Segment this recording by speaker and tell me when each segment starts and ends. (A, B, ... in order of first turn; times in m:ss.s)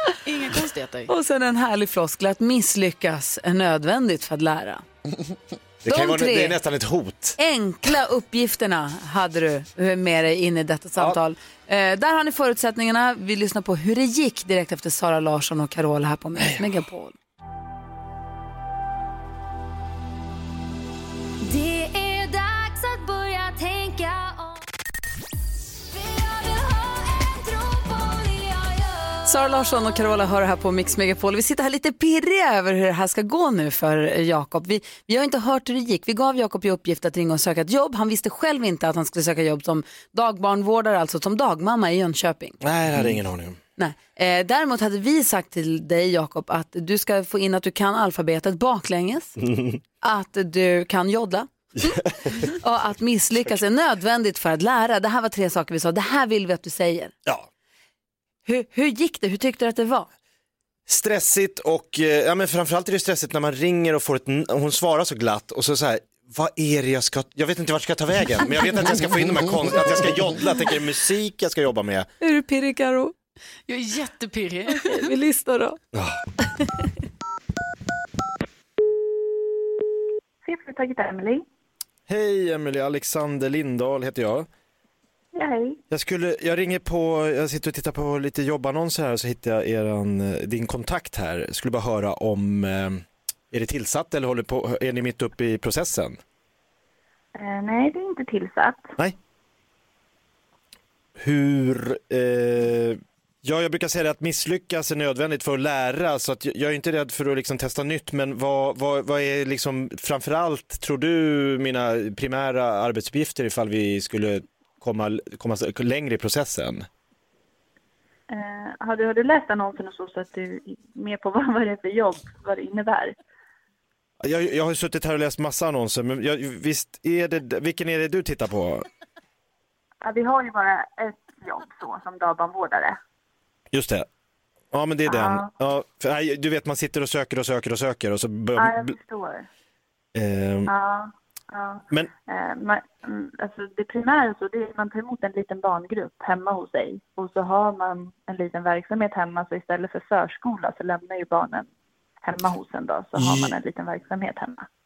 0:00.2-0:01.1 A
0:01.1-0:04.8 B
0:05.8-0:07.4 C
0:05.9-0:06.6 B
0:07.4-0:17.1 B
0:21.4-0:24.4 D
0:27.5-0:28.5 D
0:29.2-0:42.6 B
0:42.6-0:43.6 C
0:43.8-0:49.4 B
0:49.5-0:49.8 C
0:50.0-0:57.1 B
0:51.8-0:52.4 C
0:58.4-1:00.1 B
1:00.9-1:12.1 C
1:12.2-1:13.1 B
1:13.7-1:15.1 A
1:14.7-1:15.8 B
1:20.4-1:21.4 E
1:22.1-1:24.5 C
1:25.3-1:25.8 E
1:25.9-1:36.2 C
1:37.3-1:38.9 E
1:41.2-1:56.8 C
1:58.3-2:03.2 E
2:04.2-2:08.8 C
2:10.0-2:13.0 E
2:13.7-2:14.0 C
2:14.7-2:18.9 C
2:15.0-2:15.5 E
2:18.6-2:19.4 E
2:20.1-2:20.7 C
2:20.6-2:31.7 E
2:32.2-2:34.6 E
2:33.2-2:33.5 C